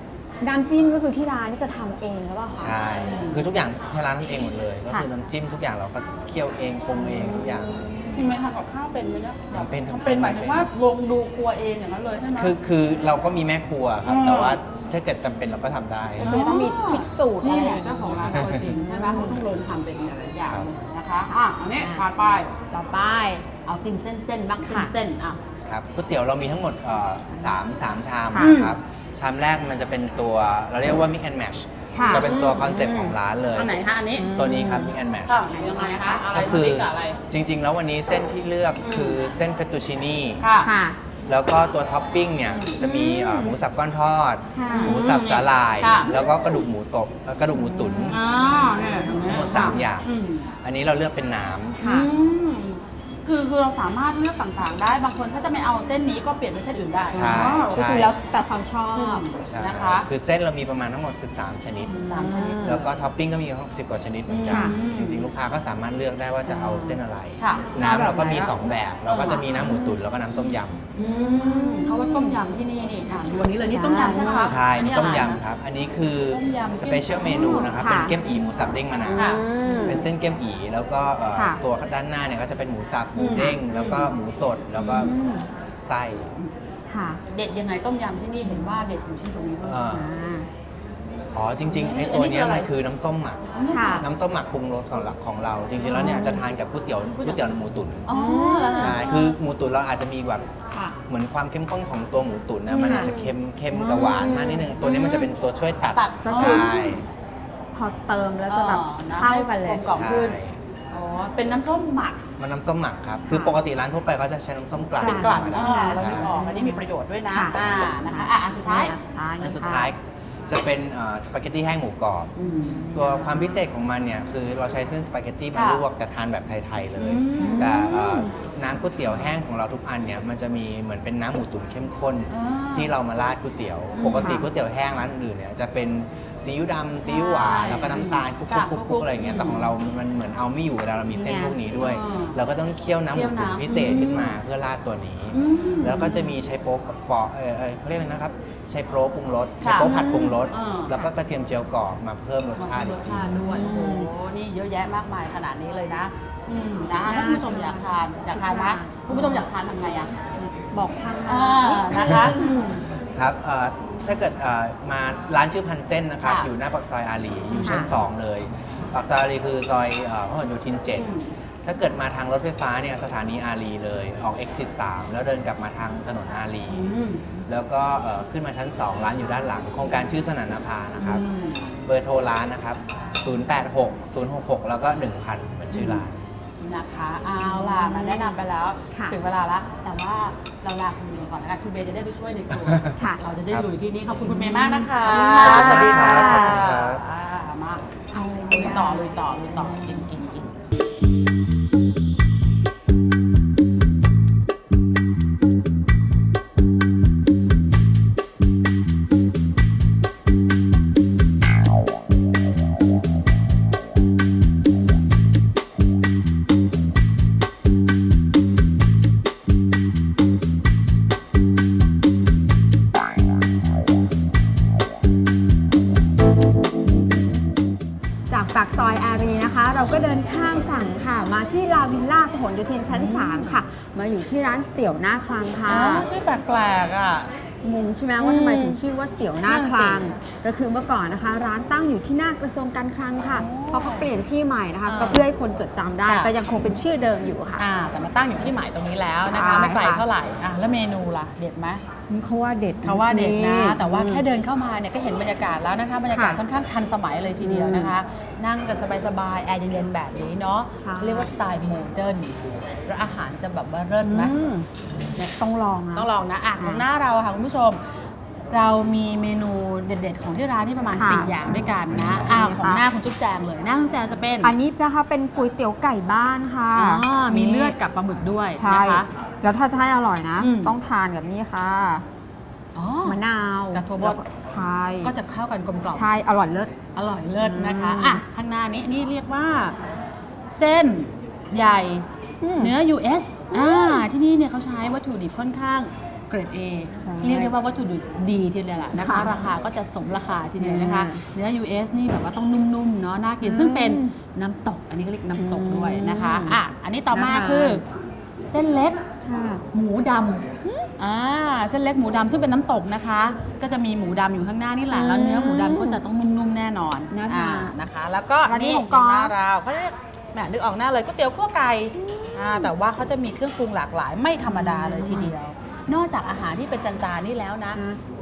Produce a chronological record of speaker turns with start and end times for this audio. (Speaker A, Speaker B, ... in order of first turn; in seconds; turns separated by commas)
Speaker A: 0.4-2.8, Speaker B: 2.5-8.1, Speaker C: 2.9-3.5, Speaker A: 7.1-7.8, Speaker C: 8.1-12.5, Speaker B: 9.5-10.7, Speaker B: 12.3-16.3, Speaker C: 14.0-14.6, Speaker C: 16.2-22.5, Speaker A: 16.2-18.1, Speaker B: 18.1-18.7, Speaker A: 18.7-19.4, Speaker A: 21.7-22.0, Speaker A: 22.7-23.4, Speaker C: 23.6-25.4, Speaker A: 24.6-24.9, Speaker B: 25.6-35.4, Speaker A: 28.3-28.6, Speaker C: 28.4-28.8, Speaker A: 31.9-33.1, Speaker C: 32.0-32.7, Speaker C: 33.5-34.3, Speaker A: 34.2-34.9, Speaker C: 35.2-37.2, Speaker B: 36.3-40.4, Speaker C: 38.8-39.2, Speaker C: 40.4-40.7, Speaker A: 40.6-41.0, Speaker B: 41.3-48.2, Speaker C: 42.5-42.8, Speaker A: 42.8-43.5, Speaker A: 44.5-45.0, Speaker C: 44.7-46.2, Speaker A: 47.5-49.8, Speaker C: 48.1-50.5, Speaker B: 49.2-50.1, Speaker B: 50.6-51.8, Speaker A: 51.8-52.1, Speaker C: 51.8-57.8, Speaker B: 57.1-58.1, Speaker A: 57.3-59.2, Speaker C: 58.9-60.1, Speaker B: 59.4-70.9, Speaker C: 61.9-62.9, Speaker A: 62.1-62.8, Speaker C: 64.3-65.2, Speaker A: 64.5-64.8, Speaker A: 66.5-67.0, Speaker C: 67.4-67.7, Speaker A: 67.7-68.5, Speaker C: 69.0-69.5, Speaker A: 69.5-70.0, Speaker C: 71.0-75.4, Speaker A: 71.4-72.4, Speaker A: 73.7-74.6, Speaker B: 74.2-85.2, Speaker C: 76.3-77.7, Speaker A: 77.7-78.1, Speaker A: 79.0-80.0, Speaker C: 79.1-80.0, Speaker A: 81.3-81.6, Speaker C: 83.2-84.1, Speaker A: 84.8-85.5, Speaker B: 85.8-86.3, Speaker A: 86.9-87.2, Speaker C: 87.3-90.0, Speaker B: 89.6-90.1, Speaker A: 89.9-90.5, Speaker B: 91.3-98.1, Speaker C: 91.7-92.7, Speaker C: 93.5-94.0, Speaker A: 93.7-94.0, Speaker C: 95.8-96.4, Speaker A: 96.0-96.4, Speaker C: 97.2-97.5, Speaker C: 98.0-99.3, Speaker A: 98.1-99.0, Speaker B: 98.7-100.4, Speaker A: 100.7-101.0, Speaker B: 101.1-107.0, Speaker C: 102.7-105.3, Speaker A: 102.7-103.1, Speaker C: 105.9-106.8, Speaker A: 106.2-107.0, Speaker A: 107.7-109.9, Speaker C: 108.5-110.4, Speaker B: 109.9-110.6, Speaker C: 110.9-112.2, Speaker B: 112.4-116.3, Speaker A: 113.3-113.6, Speaker C: 115.0-119.0, Speaker A: 115.0-119.9, Speaker B: 119.4-122.3, Speaker C: 122.4-122.9, Speaker A: 122.7-123.3, Speaker B: 122.9-153.5, Speaker C: 125.5-125.8, Speaker C: 127.0-127.8, Speaker A: 127.4-128.3, Speaker C: 132.3-132.9, Speaker C: 133.9-134.4, Speaker A: 134.2-134.4, Speaker C: 137.0-139.7, Speaker A: 141.1-141.6, Speaker C: 141.8-142.4, Speaker C: 143.1-144.4, Speaker C: 145.3-146.3, Speaker C: 149.6-149.9, Speaker A: 149.8-150.4, Speaker C: 150.5-151.0, Speaker C: 152.6-160.1, Speaker A: 153.4-154.1, Speaker A: 157.0-159.4, Speaker A: 160.4-162.6, Speaker C: 161.2-162.8, Speaker B: 162.9-171.1, Speaker C: 166.2-166.5, Speaker C: 167.5-167.9, Speaker A: 167.5-167.9, Speaker C: 170.9-171.3, Speaker B: 171.6-176.9, Speaker C: 176.7-177.3, Speaker B: 177.5-181.2, Speaker C: 181.0-181.7, Speaker B: 181.8-186.2, Speaker C: 185.7-186.0, Speaker C: 186.6-197.9, Speaker A: 187.4-189.2, Speaker B: 192.6-192.9, Speaker A: 192.9-193.2, Speaker A: 194.2-196.6, Speaker B: 195.3-197.0, Speaker A: 198.1-200.0, Speaker C: 198.5-200.5, Speaker A: 228.3-236.1, Speaker C: 232.9-233.6, Speaker C: 235.7-237.3, Speaker A: 237.6-247.7, Speaker C: 238.2-238.8, Speaker C: 239.4-240.0, Speaker C: 243.3-244.1, Speaker C: 244.8-245.3, Speaker C: 246.0-246.3, Speaker C: 247.6-251.8, Speaker A: 249.3-250.0, Speaker A: 252.1-254.2, Speaker C: 252.8-264.3, Speaker A: 256.1-256.4, Speaker A: 257.4-257.9, Speaker A: 260.8-261.3, Speaker A: 264.0-266.9, Speaker C: 265.9-267.8, Speaker C: 268.5-274.5, Speaker A: 270.9-271.4, Speaker A: 272.1-272.9, Speaker A: 274.4-277.8, Speaker C: 276.7-279.1, Speaker A: 278.6-282.0, Speaker C: 280.4-280.7, Speaker C: 282.7-283.2, Speaker A: 283.0-285.1, Speaker C: 283.7-284.2, Speaker C: 285.0-286.1, Speaker A: 285.9-286.7, Speaker C: 286.9-289.8, Speaker A: 287.4-288.2, Speaker C: 290.5-292.1, Speaker A: 292.4-292.8, Speaker C: 292.6-307.8, Speaker A: 293.5-294.0, Speaker A: 297.0-297.5, Speaker A: 298.9-299.5, Speaker A: 300.6-301.2, Speaker A: 303.4-304.1, Speaker A: 305.4-306.6, Speaker A: 307.1-307.8, Speaker C: 308.5-309.0, Speaker A: 309.2-309.6, Speaker C: 309.7-310.4, Speaker A: 310.6-310.9, Speaker C: 311.0-327.8, Speaker A: 314.9-316.0, Speaker A: 317.1-317.7, Speaker A: 318.4-319.3, Speaker A: 321.9-322.7, Speaker A: 324.4-325.3, Speaker A: 327.7-328.0